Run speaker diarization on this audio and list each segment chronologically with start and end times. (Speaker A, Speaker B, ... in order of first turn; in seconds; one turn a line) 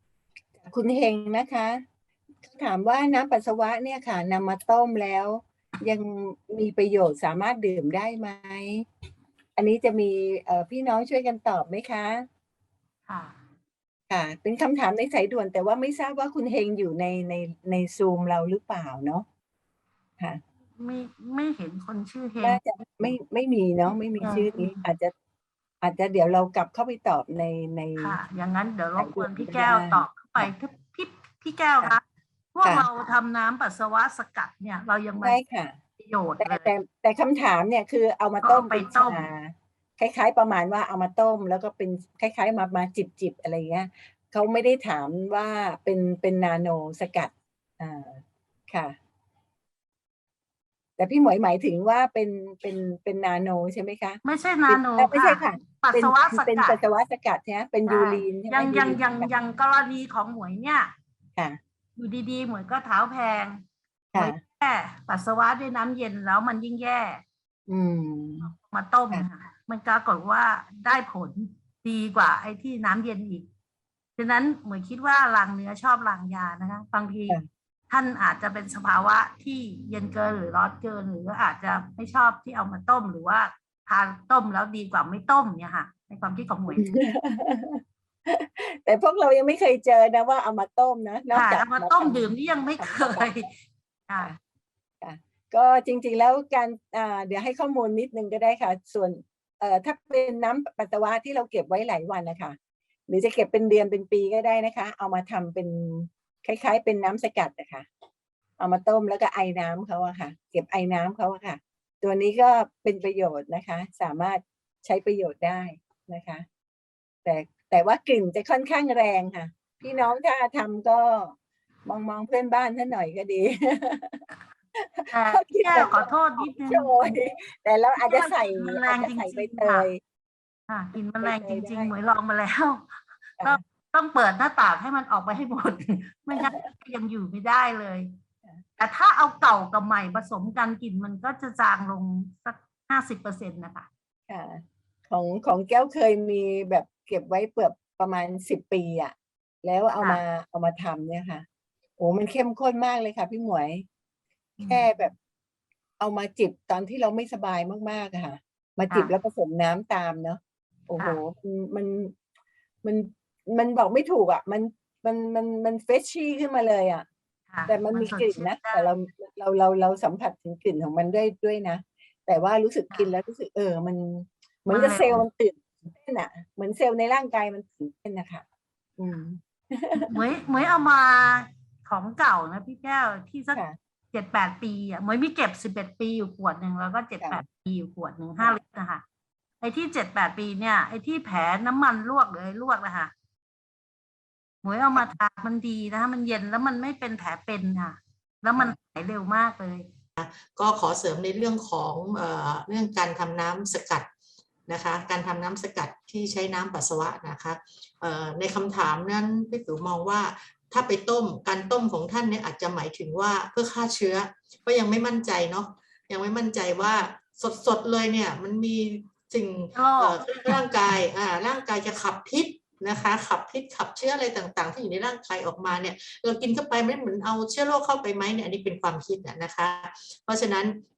Speaker A: 0.6-1.8
Speaker A: 2.4-8.9
Speaker A: 9.6-12.3
Speaker B: 13.1-13.4
Speaker A: 14.1-19.2
Speaker B: 20.8-23.1
Speaker A: 22.4-25.1
Speaker B: 24.2-24.8
Speaker A: 25.8-28.2
Speaker B: 28.0-32.0
Speaker A: 29.0-30.5
Speaker B: 32.5-35.4
Speaker A: 32.6-32.9
Speaker A: 35.2-35.8
Speaker B: 36.0-36.7
Speaker A: 36.4-49.0
Speaker B: 38.4-39.2
Speaker A: 51.0-59.3
Speaker B: 54.2-56.8
Speaker B: 57.9-60.9
Speaker B: 62.0-63.6
Speaker A: 64.1-64.4
Speaker B: 64.1-67.2
Speaker A: 67.7-68.5
Speaker B: 68.5-73.5
Speaker B: 74.2-77.4
Speaker B: 77.9-86.9
Speaker A: 86.7-93.5
Speaker B: 91.3-93.5
Speaker A: 95.0-102.6
Speaker A: 103.1-107.9
Speaker A: 108.6-116.4
Speaker A: 117.2-124.2
Speaker A: 124.7-130.0
Speaker B: 125.1-127.1
Speaker B: 128.0-129.9
Speaker B: 130.7-132.9
Speaker A: 131.2-131.9
Speaker B: 133.4-138.1
Speaker A: 136.3-136.7
Speaker B: 138.8-143.9
Speaker A: 144.3-151.4
Speaker B: 149.9-150.2
Speaker A: 152.0-153.8
Speaker B: 154.6-154.8
Speaker A: 154.6-155.1
Speaker A: 156.0-162.1
Speaker A: 162.8-167.1
Speaker B: 167.5-168.9
Speaker A: 167.7-178.4
Speaker B: 174.7-175.2
Speaker A: 179.0-180.1
Speaker B: 179.9-189.0
Speaker B: 189.6-193.1
Speaker B: 194.6-199.9
Speaker C: 200.2-204.1
Speaker C: 204.7-230.8
Speaker B: 219.7-220.6